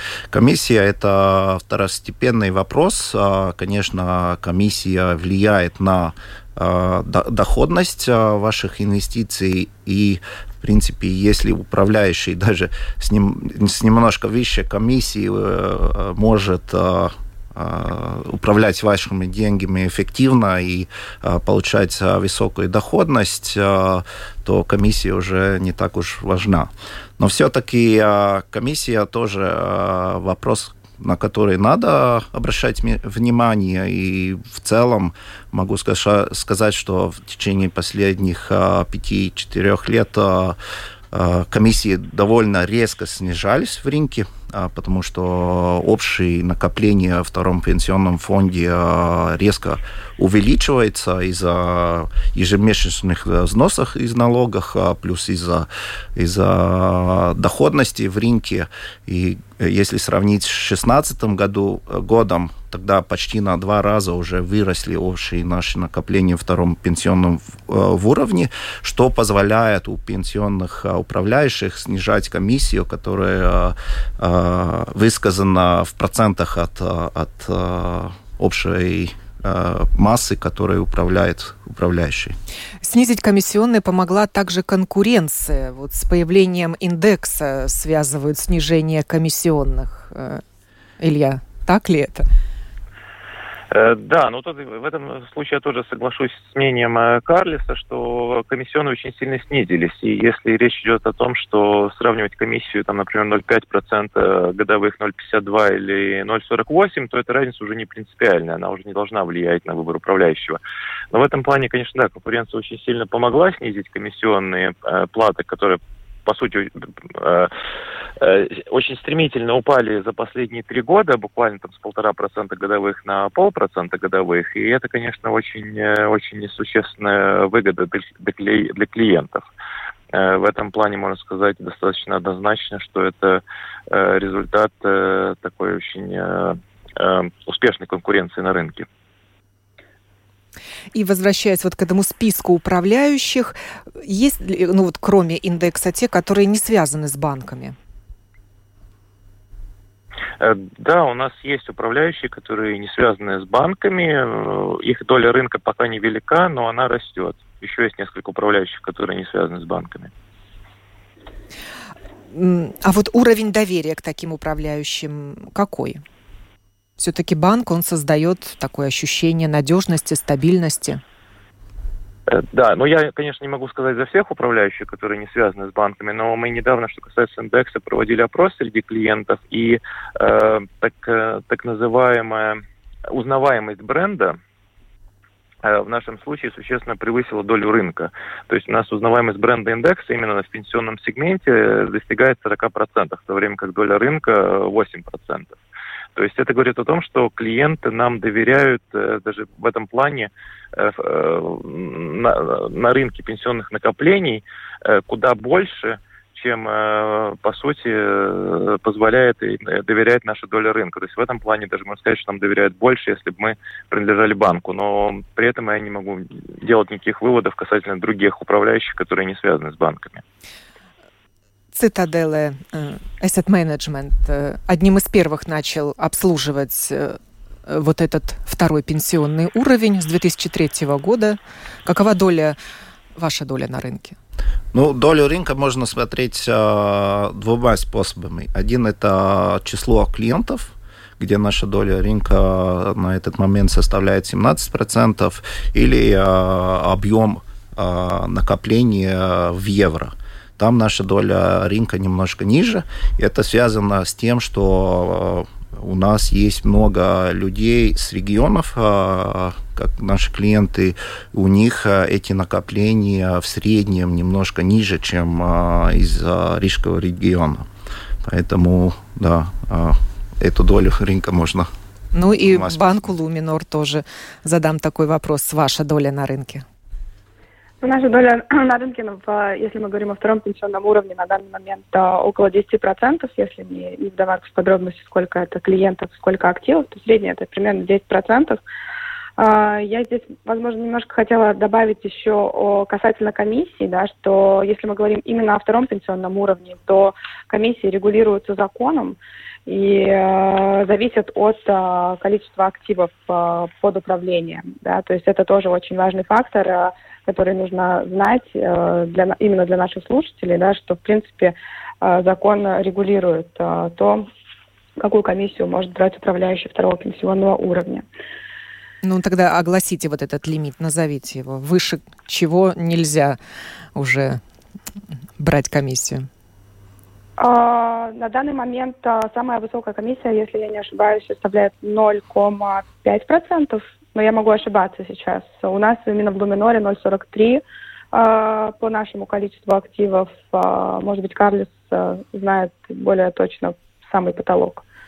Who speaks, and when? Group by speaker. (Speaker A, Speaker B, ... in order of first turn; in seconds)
Speaker A: 0.3-40.6, 41.1-82.3, 234.7-267.6, 268.2-271.7, 272.4-272.8
Speaker B: 82.8-90.4, 91.0-92.2, 140.9-147.8, 162.3-166.0, 167.0-171.0, 221.7-232.6, 233.2-234.2, 272.1-276.6, 319.0-323.4, 323.9-324.4, 325.4-326.3
Speaker C: 93.7-110.6, 111.1-117.5, 118.2-129.5, 130.1-138.9, 150.4-160.1, 172.3-184.4, 185.6-195.6, 196.2-220.2
Speaker D: 277.8-288.6, 289.4-314.3, 315.0-318.1, 327.4-344.8